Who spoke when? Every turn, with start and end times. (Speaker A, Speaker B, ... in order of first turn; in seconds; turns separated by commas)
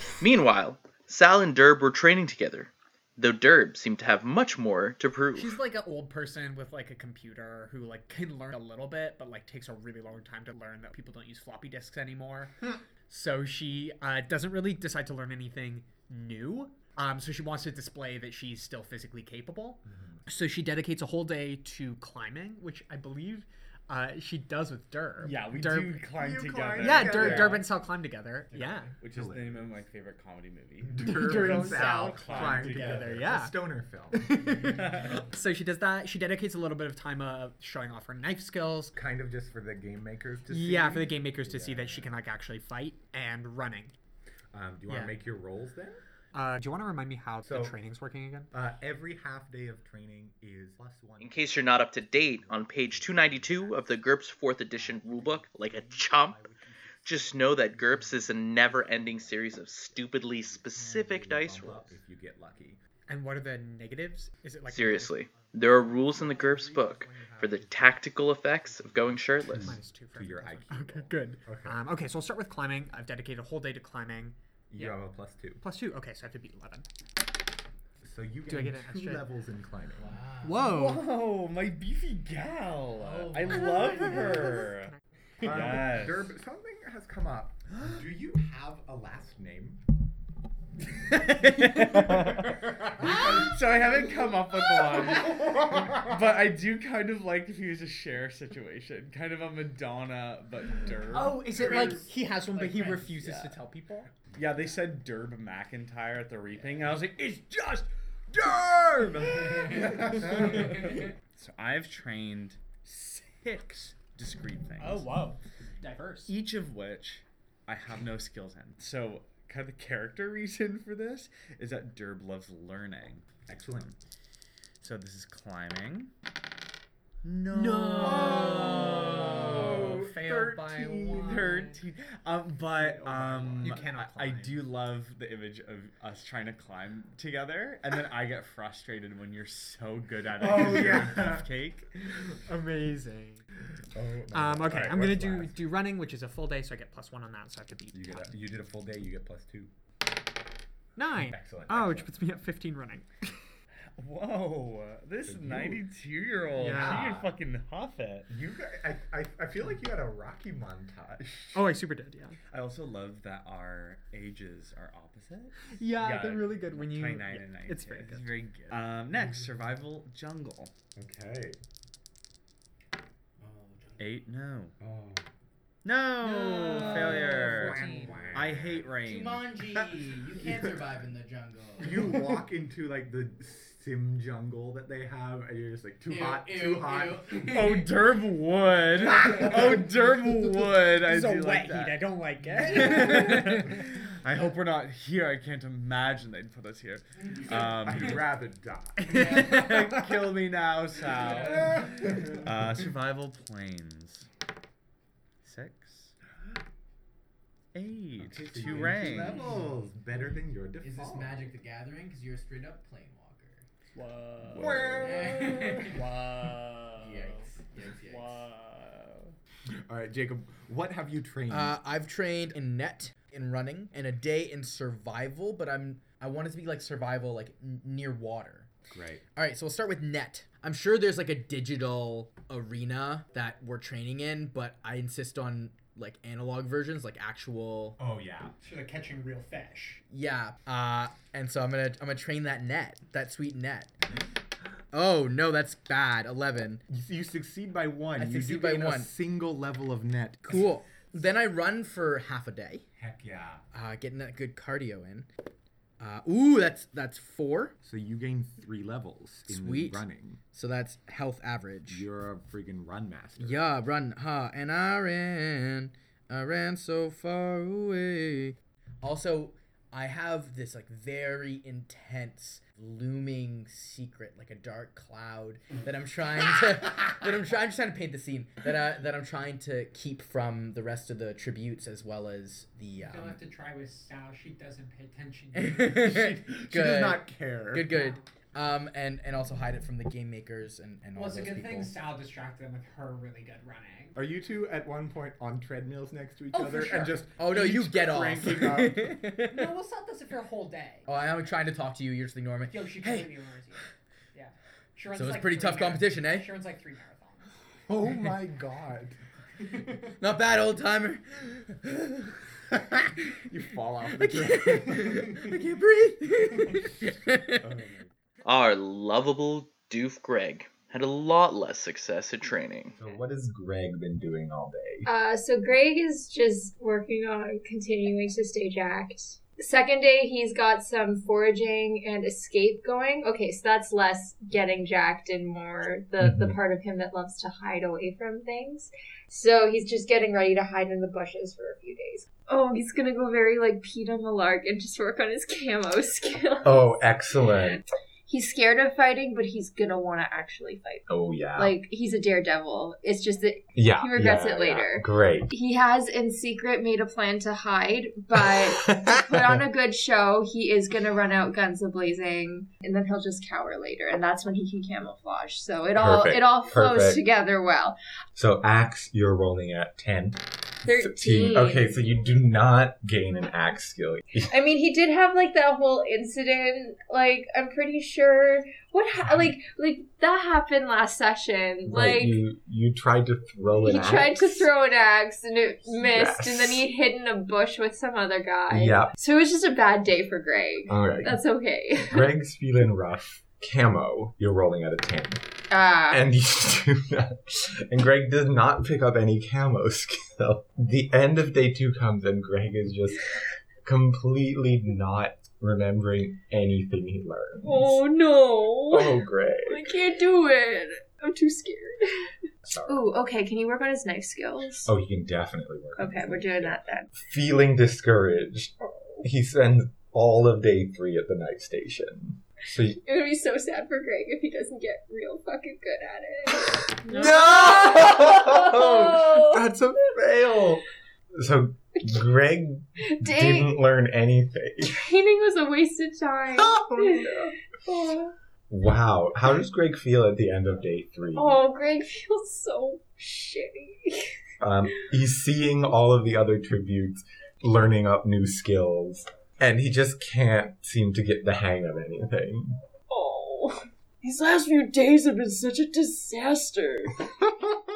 Speaker A: 0.2-5.5, Speaker B: 5.3-26.1, Speaker C: 19.9-20.2, Speaker D: 25.2-27.7, Speaker C: 26.1-27.6, Speaker B: 26.8-29.0, Speaker D: 28.5-33.2, Speaker C: 29.1-29.7, Speaker C: 30.9-34.5, Speaker B: 31.0-33.6, Speaker B: 34.1-38.9, Speaker D: 34.6-35.2, Speaker C: 38.9-42.1, Speaker B: 40.5-43.9, Speaker C: 44.5-46.0, Speaker B: 44.9-45.1, Speaker B: 46.3-48.5, Speaker C: 47.5-47.8, Speaker C: 48.5-53.7, Speaker A: 51.2-56.4, Speaker C: 54.8-55.6, Speaker A: 57.0-61.9, Speaker C: 57.2-62.8, Speaker B: 63.1-68.0, Speaker A: 64.7-69.8, Speaker B: 68.9-75.0, Speaker C: 69.7-71.8, Speaker C: 74.7-75.6, Speaker B: 75.6-76.9, Speaker C: 78.0-80.1, Speaker B: 78.5-79.3, Speaker E: 80.0-80.7, Speaker B: 80.4-81.0, Speaker D: 80.7-84.9, Speaker E: 83.0-84.2, Speaker B: 83.4-85.7, Speaker C: 85.4-89.8, Speaker D: 85.4-86.3, Speaker B: 91.5-92.4, Speaker D: 91.7-103.5, Speaker B: 93.0-93.5, Speaker C: 93.0-93.5, Speaker B: 95.2-95.4, Speaker B: 101.1-104.1, Speaker D: 104.3-115.2, Speaker B: 114.8-116.3, Speaker D: 116.3-123.9, Speaker C: 123.5-124.0, Speaker D: 124.8-126.1, Speaker D: 127.2-129.9, Speaker B: 127.5-131.8, Speaker C: 128.0-131.5, Speaker D: 131.1-141.9, Speaker B: 132.8-134.6, Speaker C: 133.1-133.8, Speaker C: 140.4-141.5, Speaker B: 140.5-141.1, Speaker B: 142.5-143.4, Speaker C: 143.9-145.6, Speaker B: 144.3-148.3, Speaker C: 147.9-149.7, Speaker B: 151.0-153.2, Speaker C: 151.1-152.1, Speaker D: 154.0-158.3, Speaker C: 155.2-155.8, Speaker B: 156.6-157.2, Speaker C: 156.7-157.3, Speaker C: 158.3-161.7, Speaker B: 161.5-162.4, Speaker D: 162.5-170.7, Speaker B: 165.7-168.4, Speaker C: 169.1-169.5, Speaker C: 170.9-171.6, Speaker D: 174.0-174.8, Speaker C: 174.8-175.2, Speaker D: 175.8-179.4, Speaker B: 176.5-178.3, Speaker E: 176.5-178.3, Speaker C: 176.8-178.8, Speaker E: 179.0-182.0, Speaker C: 181.8-187.5, Speaker E: 186.1-187.9, Speaker D: 187.4-198.2, Speaker B: 190.5-193.8, Speaker C: 197.5-199.8, Speaker D: 199.1-204.3, Speaker B: 199.3-199.7, Speaker D: 205.4-206.2, Speaker D: 207.7-209.4, Speaker C: 208.2-211.5, Speaker E: 210.8-213.6, Speaker B: 214.0-214.7, Speaker D: 214.0-217.4, Speaker C: 214.6-215.9, Speaker E: 215.0-216.0, Speaker E: 217.0-218.4, Speaker D: 218.1-219.3, Speaker C: 219.9-221.8, Speaker E: 221.5-228.7, Speaker C: 228.9-229.2, Speaker E: 229.4-238.0, Speaker C: 238.0-238.5, Speaker B: 238.6-240.0, Speaker E: 240.1-243.9, Speaker E: 244.9-246.8, Speaker C: 246.9-250.6, Speaker E: 248.2-249.1, Speaker E: 250.4-252.8, Speaker C: 253.0-253.6, Speaker E: 253.7-255.3, Speaker E: 256.0-257.7, Speaker C: 257.8-260.4, Speaker E: 259.5-262.0, Speaker C: 261.9-263.6, Speaker E: 263.4-283.4, Speaker B: 283.0-286.0, Speaker E: 285.5-291.9, Speaker C: 285.9-288.0, Speaker B: 287.9-288.2, Speaker B: 291.1-294.1, Speaker C: 294.1-299.1, Speaker B: 296.5-297.2, Speaker E: 297.4-299.8, Speaker B: 299.2-301.1, Speaker E: 301.1-303.3, Speaker B: 302.7-307.5, Speaker E: 305.1-306.5, Speaker C: 307.9-309.2, Speaker E: 310.1-311.8, Speaker C: 313.4-315.5, Speaker E: 314.2-317.6, Speaker C: 317.6-318.1, Speaker A: 318.4-323.0, Speaker C: 323.0-323.6, Speaker F: 323.1-325.1, Speaker G: 325.1-368.0, Speaker F: 336.2-336.5, Speaker F: 346.6-347.8, Speaker F: 351.1-351.8, Speaker F: 353.8-355.5, Speaker F: 358.4-359.6, Speaker F: 365.9-367.2, Speaker F: 368.4-374.5, Speaker G: 370.8-372.1, Speaker G: 374.5-382.4, Speaker F: 381.9-384.7, Speaker G: 383.8-392.3, Speaker F: 385.9-386.9, Speaker F: 388.7-389.1, Speaker F: 390.9-391.4, Speaker F: 392.1-395.4, Speaker G: 395.7-396.2, Speaker F: 396.1-403.2, Speaker F: 403.8-408.0, Speaker G: 407.6-412.3, Speaker F: 408.9-409.9, Speaker F: 412.7-413.1, Speaker G: 412.8-414.9, Speaker F: 414.9-423.0, Speaker G: 416.0-417.1, Speaker G: 418.9-419.3, Speaker G: 422.8-429.7, Speaker F: 427.1-430.8, Speaker F: 431.4-435.1, Speaker G: 433.0-433.8, Speaker G: 434.8-438.3, Speaker F: 436.6-437.4, Speaker F: 438.7-441.6, Speaker G: 441.3-444.3, Speaker F: 444.6-452.8, Speaker G: 453.1-457.1